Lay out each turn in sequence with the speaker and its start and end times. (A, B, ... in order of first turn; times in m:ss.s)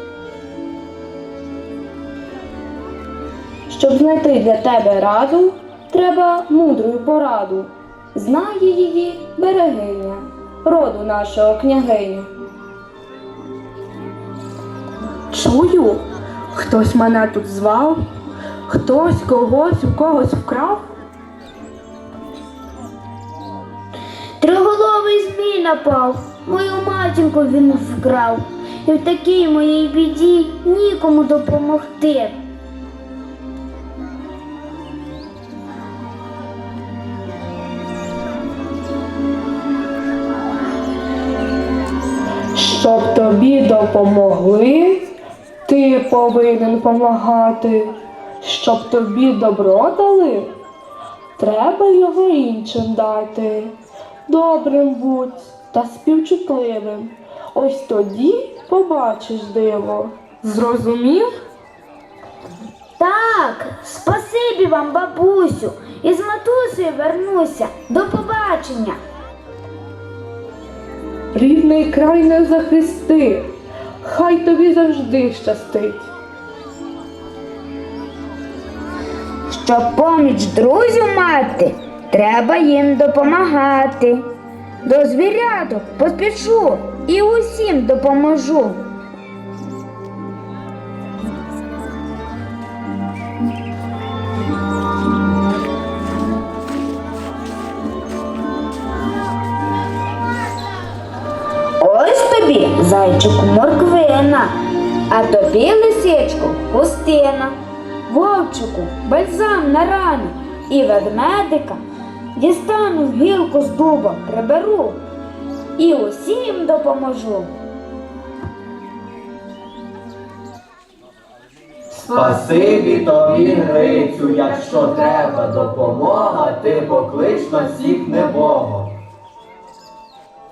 0:03.7-0:12.3 A
0:15.3-0:16.0 A
0:16.5-0:18.0 A
0:18.7-0:20.8 A
0:24.4-0:32.4 B
0:42.6-0:45.1 A
0:45.7-0:50.5 A
0:51.4-0:53.7 A
0:54.3-1:01.3 A
1:03.0-1:09.0 B
1:11.4-1:16.1 A
1:19.5-1:24.3 B
1:24.8-1:28.8 B
1:41.8-1:44.5 B
1:45.1-1:47.6 B
1:48.1-1:51.8 B
1:52.4-1:55.0 B
1:55.8-1:57.5 B
2:02.1-2:08.7 C